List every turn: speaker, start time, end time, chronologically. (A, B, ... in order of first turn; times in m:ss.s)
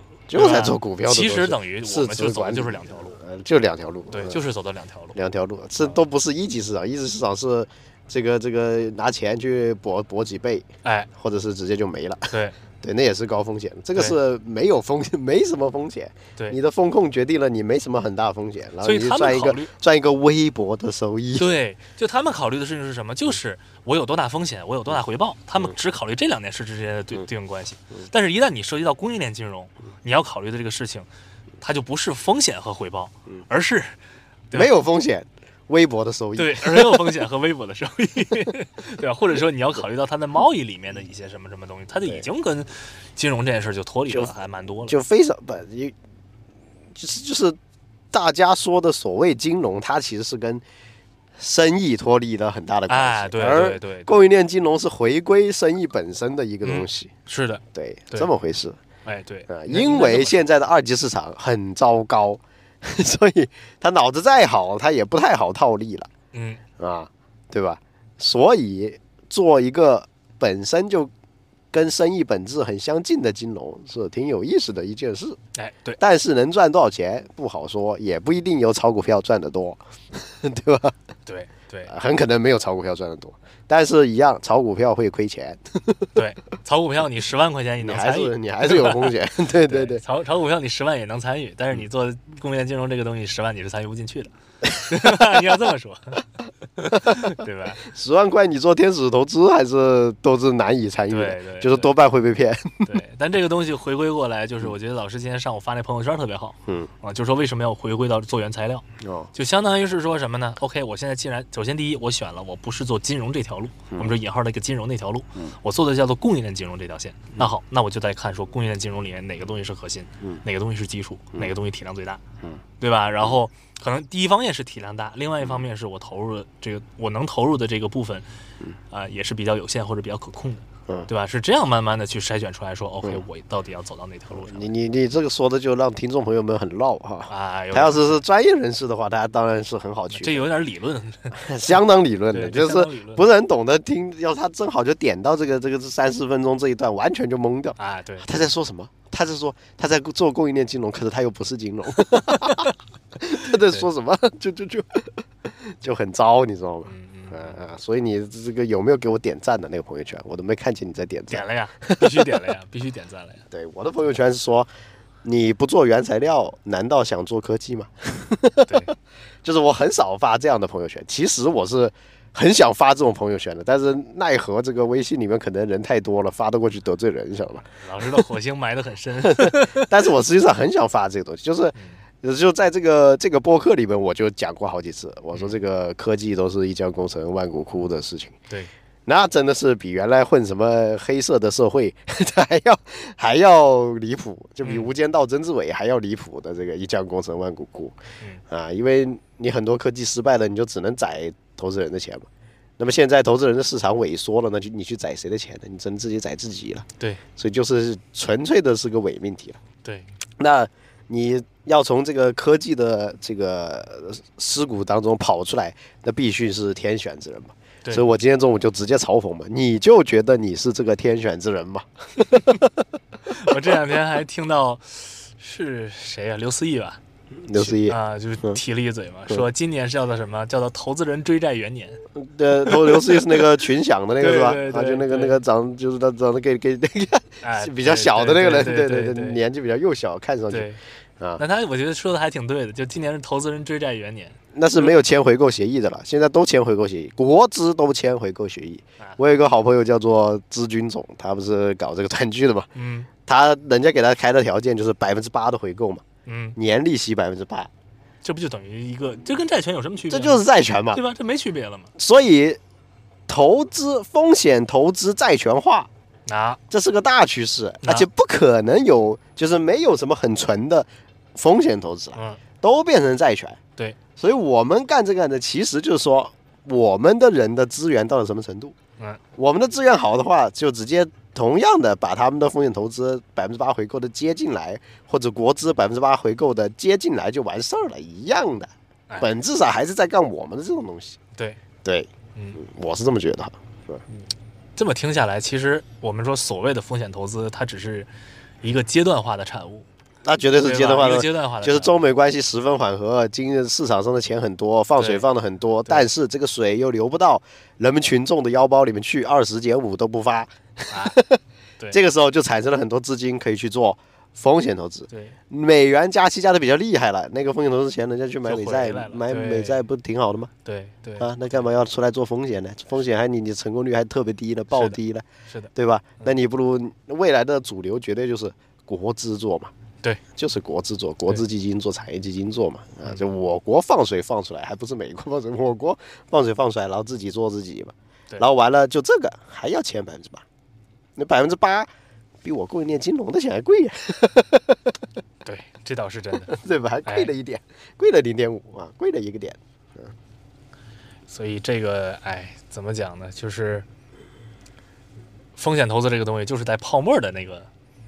0:00.3-0:04.4 A
0:00.3-0:03.2 B
0:04.1-0:05.2 B
0:05.2-0:21.5 A
0:10.8-0:11.1 B
0:12.3-0:12.6 B
0:18.8-0:19.7 B
0:21.4-0:31.1 B
0:31.6-0:34.0 B
0:34.5-0:37.2 A
0:36.4-0:45.0 B
0:44.9-0:45.9 A
0:47.0-0:47.6 A
0:48.1-0:50.6 A
0:51.4-0:57.1 A
0:52.9-0:54.3 B
0:56.6-0:58.3 B
0:57.7-0:58.8 A
0:59.0-1:00.5 B
0:59.5-1:06.1 A
1:06.3-1:06.6 B
1:06.8-1:11.1 A
1:11.7-1:15.4 A
1:15.6-1:16.0 B
1:16.0-1:21.0 A
1:21.3-1:21.9 B
1:21.9-1:26.1 A
1:26.2-1:29.1 B
1:27.8-1:30.0 A
1:29.6-1:36.2 B
1:36.8-1:37.8 B
1:37.8-1:42.9 A
1:41.1-1:41.9 B
1:42.9-2:02.2 B
1:49.0-1:49.3 A
2:02.8-2:08.3 B
2:08.9-2:14.7 B
2:14.3-2:20.5 A
2:17.3-2:18.2 B
2:20.1-2:21.5 B
2:21.4-2:42.2 A
2:22.3-2:23.2 B
2:27.8-2:28.5 B
2:32.4-2:32.7 B
2:36.9-2:37.6 B
2:41.3-2:43.4 B
2:43.5-2:44.7 A
2:45.2-2:48.9 A
2:48.7-2:48.9 B
2:49.4-2:57.7 A
2:57.8-2:59.9 B
2:59.2-3:08.4 A
3:01.8-3:02.0 B
3:09.1-3:18.0 A
3:14.6-3:14.9 B
3:18.5-3:22.3 A
3:22.8-3:29.6 A
3:29.8-3:30.1 B
3:30.4-3:42.6 A
3:43.2-3:47.0 B
3:47.5-3:48.6 A
3:47.6-3:52.0 B
3:52.2-4:01.4 A
3:52.7-3:53.2 B
3:54.2-3:55.4 B
3:57.4-3:59.4 B
4:00.5-4:00.8 B
4:01.4-4:05.0 B
4:04.5-4:12.7 A
4:12.8-4:13.1 B
4:13.3-4:16.0 A
4:16.3-4:16.6 B
4:16.6-4:17.7 A
4:18.2-4:21.9 B
4:20.1-4:21.0 A
4:22.0-4:22.6 A
4:23.3-4:25.9 A
4:26.3-4:26.6 B
4:26.7-4:33.6 A
4:27.8-4:28.1 B
4:32.1-4:32.4 B
4:34.2-4:38.8 A
4:39.4-4:51.2 A
4:51.8-4:54.0 A
4:52.4-4:52.6 B
4:54.1-4:58.1 B
4:58.6-4:59.9 B
5:00.2-5:11.4 A
5:00.6-5:02.0 B
5:05.0-5:05.3 B
5:10.9-5:11.2 B
5:11.9-5:20.5 A
5:15.1-5:15.4 B
5:18.4-5:19.8 B
5:20.6-5:21.3 B
5:21.2-5:29.7 A
5:24.7-5:25.7 B
5:30.4-5:40.4 A
5:41.2-5:41.9 A
5:42.4-5:44.8 A
5:45.4-5:46.5 B
5:46.5-5:50.1 A
5:47.1-5:47.3 B
5:51.3-5:53.9 B
5:55.6-5:57.7 B